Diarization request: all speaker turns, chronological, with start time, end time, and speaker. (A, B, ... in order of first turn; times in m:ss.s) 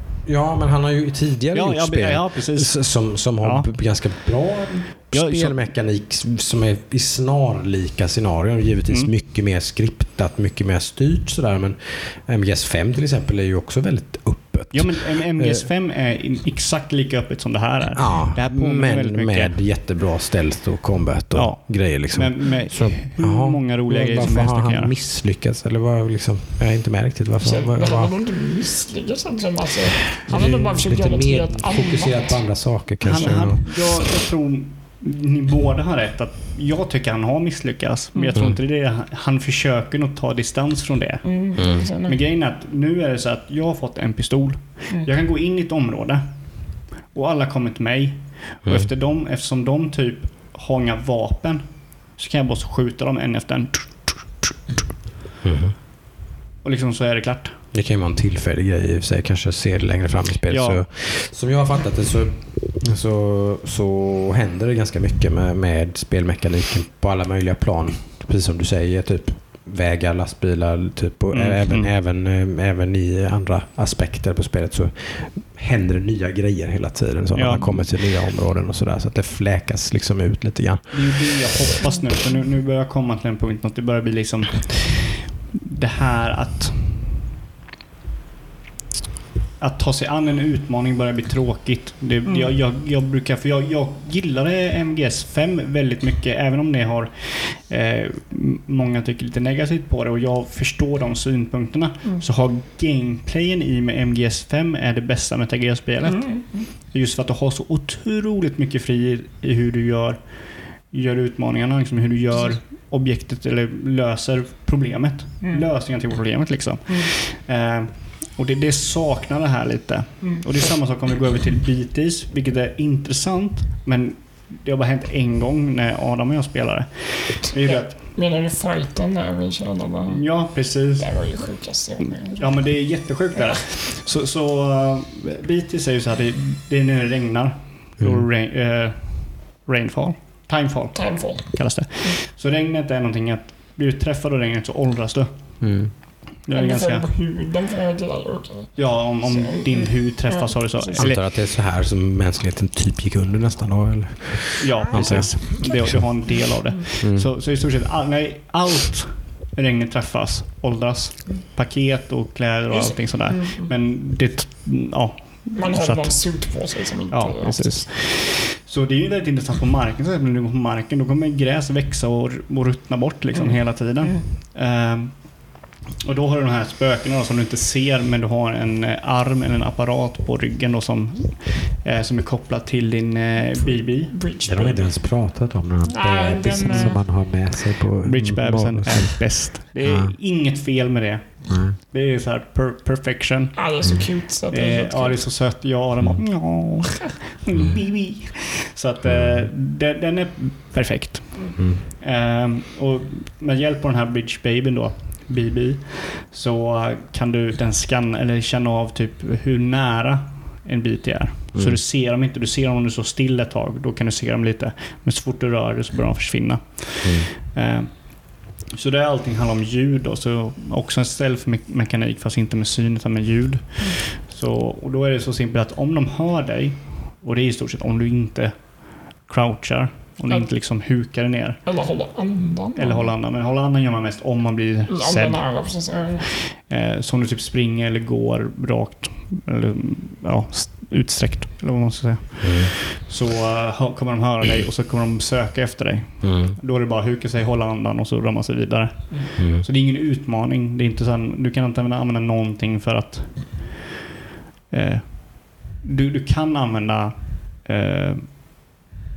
0:00.2-0:15.6 A
0:01.5-0:03.7 B
0:05.1-0:05.6 B
0:14.7-0:19.6 B
0:17.9-0:28.1 A
0:21.3-0:24.9 B
0:27.4-0:32.4 C
0:30.2-0:34.0 A
0:33.0-0:46.3 B
0:38.1-0:38.4 C
0:41.2-0:42.2 C
0:41.6-0:41.9 A
0:47.0-0:54.5 B
0:55.4-0:55.8 A
0:56.6-0:57.6 B
0:57.7-1:21.3 A
1:00.5-1:00.8 B
1:11.3-1:11.9 B
1:17.3-1:18.0 B
1:20.9-1:27.1 B
1:29.6-2:08.0 B
1:32.2-1:32.5 C
1:46.0-1:46.7 C
2:07.6-2:12.8 C
2:10.1-2:11.2 B
2:12.0-2:27.1 B
2:18.0-2:18.3 A
2:20.9-2:22.2 C
2:25.6-2:25.9 A
2:26.5-2:31.1 C
2:28.8-2:31.2 B
2:31.0-2:36.1 A
2:34.6-3:04.2 B
2:35.0-2:35.6 C
2:37.0-2:37.3 A
2:42.7-2:43.7 C
2:45.6-2:47.8 C
2:53.3-2:54.2 C
3:03.6-3:04.9 C
3:04.4-3:10.2 A
3:05.9-3:07.0 C
3:06.6-3:07.0 B
3:08.0-3:13.9 B
3:11.5-3:11.8 A
3:13.6-3:15.3 C
3:13.8-3:14.1 A
3:14.5-3:51.6 B
3:16.0-3:16.2 A
3:19.0-3:19.5 A
3:21.6-3:21.8 A
3:31.5-3:31.8 A
3:37.0-3:37.3 A
3:51.6-3:53.1 C
3:52.8-3:55.6 B
3:54.9-3:56.3 C
3:56.2-4:13.9 B
4:02.4-4:02.7 A
4:06.2-4:06.6 A
4:09.4-4:09.6 A
4:14.7-4:18.3 B